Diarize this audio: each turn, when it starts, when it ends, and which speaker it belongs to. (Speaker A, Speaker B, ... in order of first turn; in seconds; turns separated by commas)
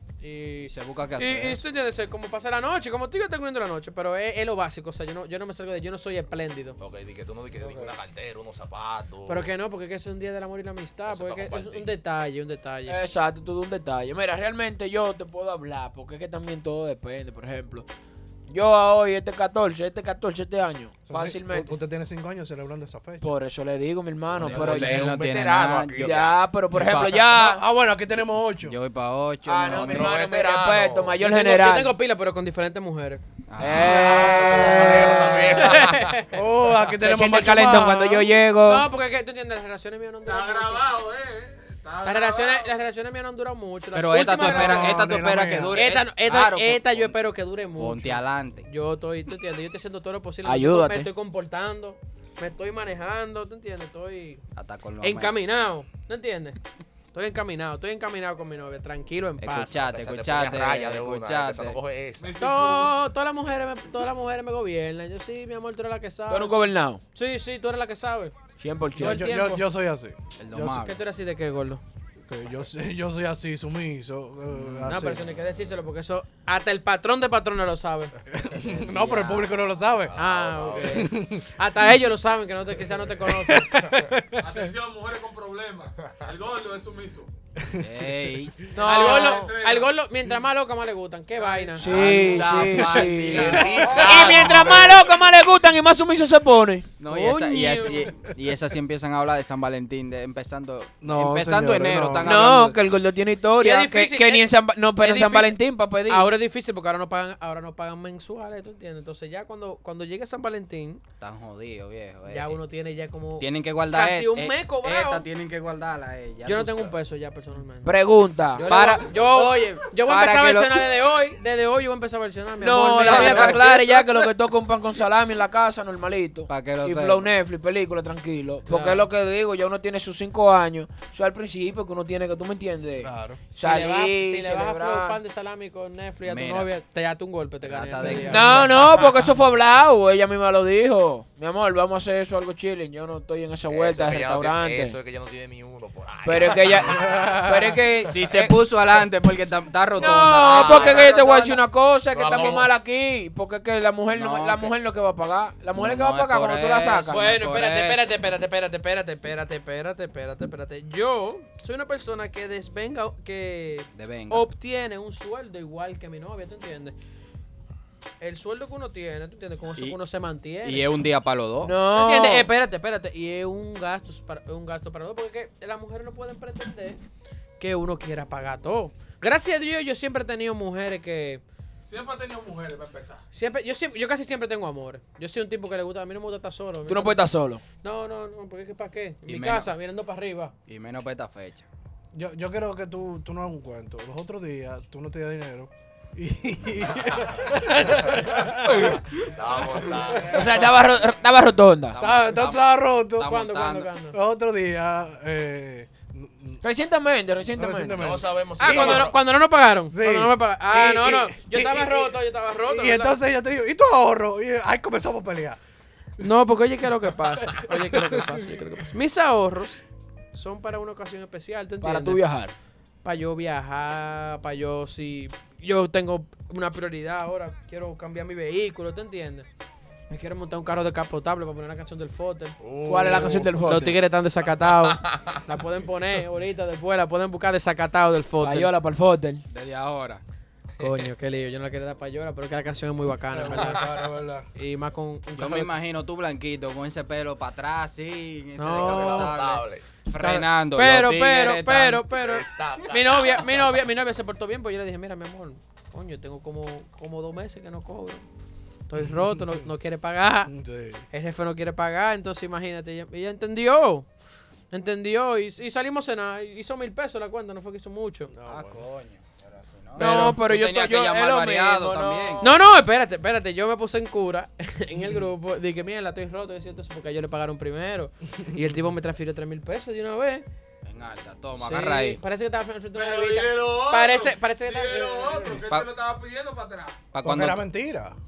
Speaker A: 0.2-6.8, Speaker B: 0.6-1.6, Speaker C: 6.8-9.5, Speaker A: 9.3-13.0, Speaker C: 11.1-11.9, Speaker D: 12.9-17.9, Speaker D: 18.5-21.7, Speaker E: 21.1-23.3, Speaker D: 23.2-25.1, Speaker B: 24.4-26.2, Speaker C: 24.4-26.4, Speaker D: 26.0-27.6, Speaker B: 26.7-27.2, Speaker E: 27.1-28.8, Speaker B: 28.6-30.2, Speaker D: 29.4-31.9, Speaker C: 29.6-31.2, Speaker A: 31.2-33.2, Speaker B: 33.5-34.6, Speaker D: 33.6-35.4, Speaker C: 33.6-36.2, Speaker E: 34.6-35.6, Speaker A: 35.5-36.3, Speaker E: 36.3-38.4, Speaker D: 37.0-38.9, Speaker A: 38.6-40.9, Speaker F: 40.2-42.7, Speaker A: 42.0-45.0, Speaker B: 43.9-47.1, Speaker E: 44.3-45.8, Speaker A: 45.7-54.4, Speaker B: 47.8-48.7, Speaker D: 50.4-51.1, Speaker B: 54.5-55.4, Speaker A: 55.0-56.6, Speaker A: 57.1-59.8, Speaker B: 59.4-61.8, Speaker C: 59.7-62.3, Speaker F: 62.2-62.9, Speaker A: 62.4-68.3, Speaker D: 66.3-67.0, Speaker D: 68.6-69.5, Speaker E: 69.0-70.7, Speaker A: 69.0-69.6, Speaker B: 70.4-71.0, Speaker A: 70.6-71.8, Speaker E: 72.2-75.2, Speaker B: 74.5-74.9, Speaker A: 74.9-78.1, Speaker E: 78.3-80.1, Speaker B: 78.6-79.5, Speaker C: 80.0-81.1, Speaker A: 80.2-83.7, Speaker E: 81.0-81.5, Speaker E: 83.3-84.6, Speaker F: 84.4-87.3, Speaker B: 87.8-88.6, Speaker D: 88.7-89.5, Speaker A: 88.8-92.2, Speaker F: 88.9-89.9, Speaker F: 91.4-92.5, Speaker D: 91.8-96.9, Speaker B: 91.8-94.4, Speaker C: 92.6-95.0, Speaker A: 94.0-94.4, Speaker B: 97.0-102.8, Speaker A: 97.1-98.1, Speaker E: 101.0-102.7, Speaker D: 102.2-106.3, Speaker A: 103.6-111.0, Speaker B: 111.2-112.6, Speaker A: 112.3-115.2, Speaker B: 113.4-116.9, Speaker A: 116.4-118.0, Speaker D: 117.8-118.7, Speaker A: 118.5-123.7, Speaker B: 118.7-120.9, Speaker D: 122.6-135.2, Speaker B: 123.0-123.7, Speaker B: 126.5-127.3, Speaker A: 128.7-129.1, Speaker E: 133.0-133.4, Speaker A: 133.6-138.6, Speaker B: 136.2-136.7, Speaker B: 137.6-138.9, Speaker E: 138.0-138.6, Speaker D: 138.3-144.9, Speaker C: 143.7-147.2, Speaker D: 146.2-148.5, Speaker E: 147.0-147.7, Speaker B: 148.0-151.6, Speaker D: 150.0-157.3, Speaker C: 150.4-151.1, Speaker C: 152.1-152.7, Speaker B: 154.1-154.7, Speaker B: 155.7-158.0, Speaker A: 157.1-166.9, Speaker B: 163.9-164.5, Speaker A: 168.2-170.9, Speaker B: 170.6-171.7, Speaker D: 171.6-172.5, Speaker A: 171.9-177.0, Speaker A: 177.6-181.4, Speaker F: 181.8-183.2, Speaker A: 183.3-187.2, Speaker D: 186.9-187.6, Speaker A: 187.8-190.5, Speaker B: 189.2-189.7, Speaker B: 190.7-191.7, Speaker E: 192.1-199.3, Speaker C: 198.7-200.7, Speaker E: 199.8-200.2, Speaker A: 200.1-200.4, Speaker D: 200.2-202.0, Speaker B: 201.9-203.9, Speaker E: 201.9-203.4, Speaker A: 203.2-204.2, Speaker E: 204.1-206.6, Speaker D: 206.6-208.1, Speaker E: 207.6-209.2, Speaker C: 208.0-209.1, Speaker A: 208.6-213.1, Speaker E: 209.9-215.6, Speaker A: 216.2-219.8, Speaker A: 220.3-222.2, Speaker D: 221.8-222.5, Speaker A: 223.0-229.4, Speaker A: 230.1-238.7, Speaker C: 232.6-233.5, Speaker D: 232.8-234.0, Speaker C: 234.9-235.4, Speaker D: 238.4-239.4, Speaker B: 239.5-240.2, Speaker A: 240.8-243.8, Speaker E: 243.3-244.5, Speaker A: 244.5-245.7, Speaker B: 245.3-252.1, Speaker A: 248.6-249.4, Speaker C: 248.7-249.8, Speaker A: 250.2-258.2, Speaker C: 252.2-253.6, Speaker A: 258.9-260.5, Speaker E: 259.0-259.6, Speaker E: 260.5-261.0, Speaker A: 261.1-264.1, Speaker A: 264.7-268.3, Speaker E: 268.3-268.8, Speaker B: 268.4-272.5, Speaker A: 269.9-270.4, Speaker D: 270.0-272.5, Speaker A: 272.4-280.4, Speaker B: 280.8-282.2, Speaker A: 281.6-285.5, Speaker F: 282.9-287.1, Speaker B: 285.7-285.9, Speaker B: 287.1-287.6, Speaker E: 287.2-288.2